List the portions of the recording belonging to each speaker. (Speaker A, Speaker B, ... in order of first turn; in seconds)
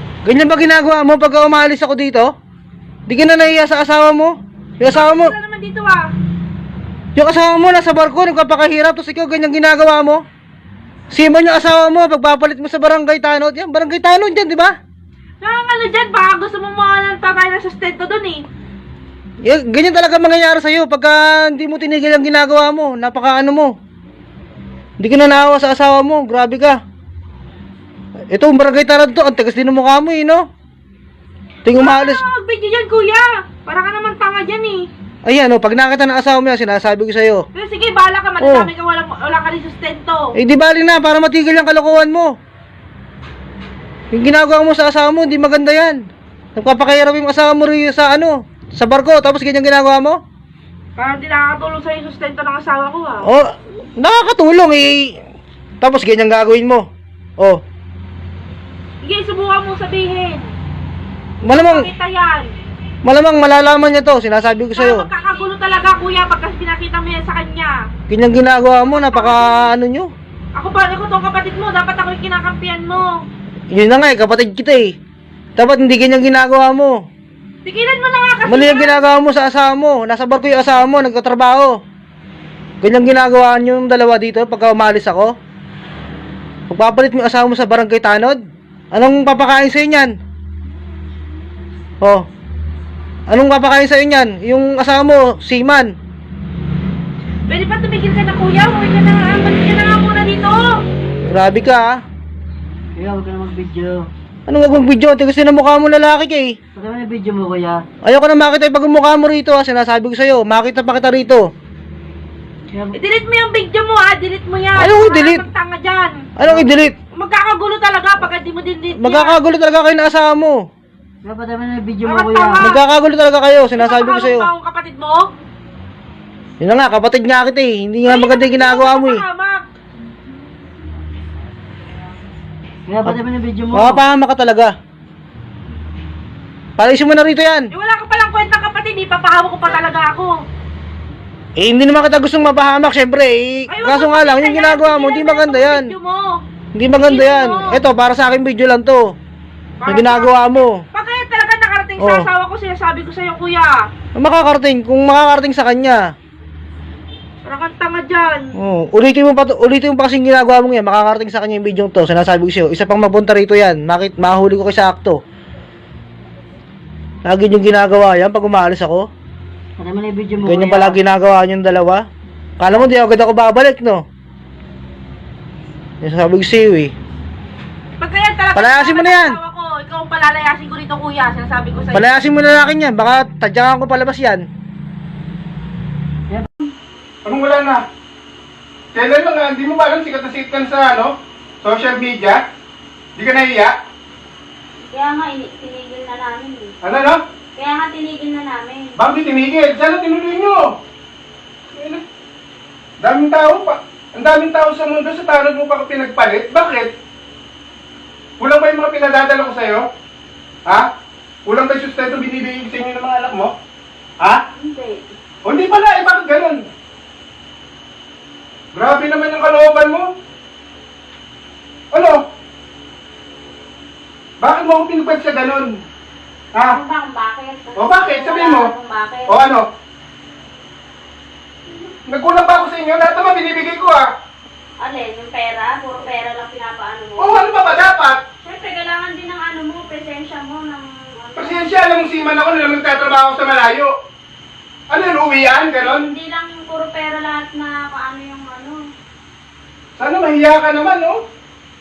Speaker A: 0.2-2.3, 3.1-5.3, 7.2-10.2, 11.1-14.7, 19.4-23.8, 25.0-26.8, 28.3-30.5, 31.6-32.2, 35.2-37.5, 38.4-38.7, 40.4-42.3, 44.1-46.0, 46.6-50.2, 53.2-55.2, 55.8-57.6, 61.4-61.9, 63.0-65.1, 68.1-70.1, 73.7-75.0, 75.6-77.0, 78.5-81.8, 82.8-85.3, 86.7-88.4, 88.9-90.1, 92.0-92.3, 93.3-95.9, 101.3-102.0, 104.5-106.6, 108.0-111.5, 114.8-115.5, 116.4-117.0, 118.9-120.7, 122.6-124.5, 126.6-129.2, 133.7-134.7, 136.8-137.7, 141.6-145.9, 146.8-149.1, 149.9-150.8, 152.0-152.3, 154.2-156.0, 158.6-165.2, 167.2-169.1, 170.4-172.1, 172.6-174.0, 176.0-176.9, 178.6-179.4, 181.9-184.5
Speaker B: 4.9-6.1, 15.4-18.4, 31.7-34.9, 37.5-40.3, 51.0-53.3, 59.0-60.5, 61.4-62.5, 64.8-67.9, 68.9-69.7, 70.6-73.3, 77.7-79.1, 97.5-100.8, 112.9-116.3, 117.1-119.4, 122.0-122.8, 123.8-125.3, 128.1-129.7, 137.7-140.4, 143.7-146.4, 147.0-147.8, 149.8-153.9, 157.4-158.6, 178.0-182.1
Speaker C: 103.0-104.0, 106.8-107.8, 121.2-122.6, 132.9-134.0, 169.8-170.9
Speaker D: 187.2-187.8, 188.9-192.4, 193.2-193.8, 196.8-197.2, 199.0-200.7, 201.8-202.0, 203.0-206.9, 208.4-209.9, 211.4-213.5, 215.4-216.6, 218.7-220.1, 221.9-222.2, 224.4-225.7, 227.8-228.7, 229.3-229.7, 232.1-234.1, 237.2-238.2, 241.3-243.9, 244.9-246.1, 250.0-251.2
Speaker E: 194.9-196.7, 197.6-198.9, 214.6-215.0, 226.7-229.4, 234.8-237.5, 238.4-241.8, 245.8-248.8